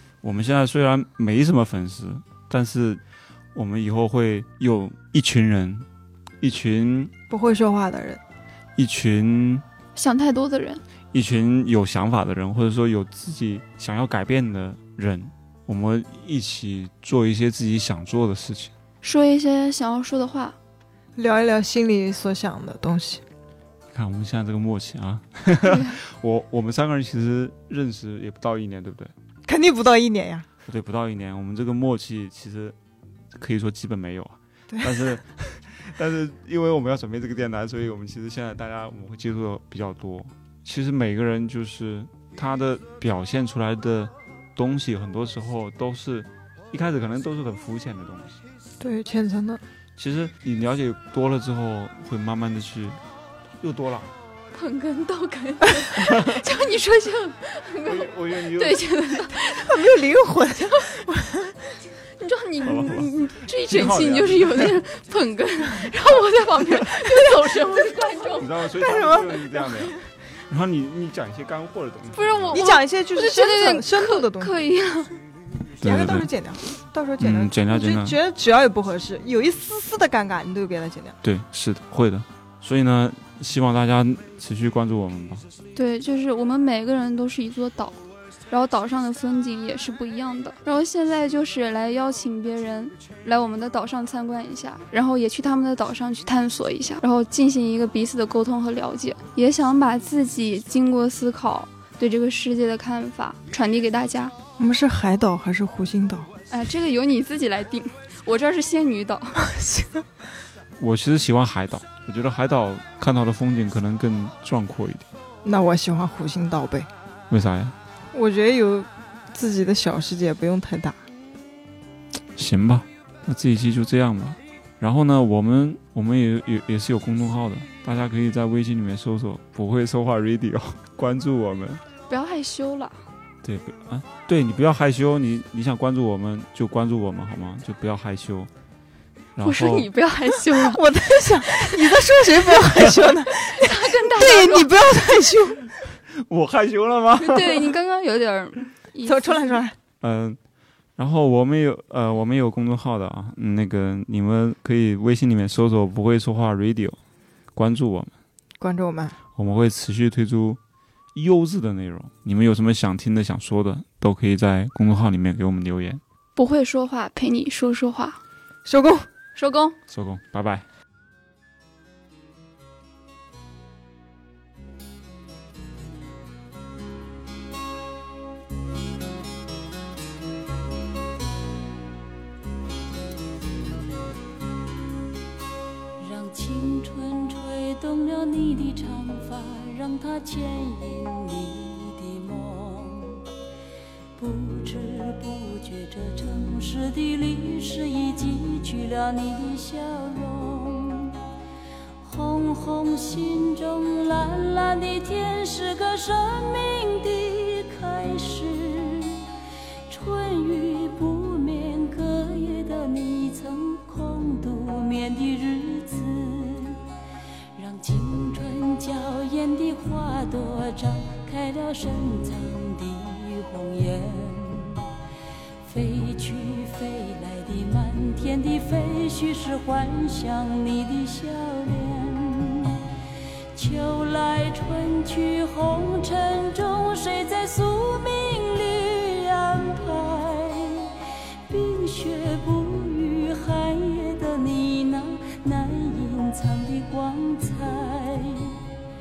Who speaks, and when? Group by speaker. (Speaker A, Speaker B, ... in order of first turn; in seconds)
Speaker A: 0.2-3.0, 3.5-5.9, 6.4-7.1, 8.8-9.7, 11.1-18.7, 23.9-29.1, 30.6-32.8, 33.3-48.4, 50.0-53.0, 53.6-54.1, 56.0-56.4, 57.9-58.8, 62.6-63.1, 63.7-64.7, 68.4-69.9, 70.5-72.5, 75.8-76.3, 77.2-78.2, 81.2-85.5, 110.8-115.1, 117.3-117.8, 122.4-131.8, 133.4-138.5, 139.4-139.9, 146.1-147.7, 150.0-150.4, 151.0-157.0, 157.6-158.1, 159.4-160.6, 161.1-166.0, 169.9-170.7
Speaker B: 7.3-8.2, 21.2-23.2, 29.5-30.5, 34.7-35.2, 48.8-49.6, 59.4-61.7, 68.7-70.0, 72.5-74.6, 75.8-81.2, 104.6-106.3, 109.4-110.0, 115.5-116.9, 118.1-121.0, 140.3-145.7, 149.0-149.8, 158.6-159.2, 168.7-169.1
Speaker C: 9.9-10.8, 19.0-20.6, 25.6-26.0, 54.5-59.8, 62.0-68.5, 72.1-75.1, 85.8-88.0, 88.5-104.3, 106.5-109.4, 132.1-133.0, 139.4-140.8, 141.4-141.8, 143.3-145.4, 147.2-149.6, 166.4-168.2, 169.3-169.8
Speaker D: 186.0-193.3, 194.2-201.2, 202.0-209.2, 209.9-216.8, 217.5-224.9, 225.6-232.9, 233.5-248.7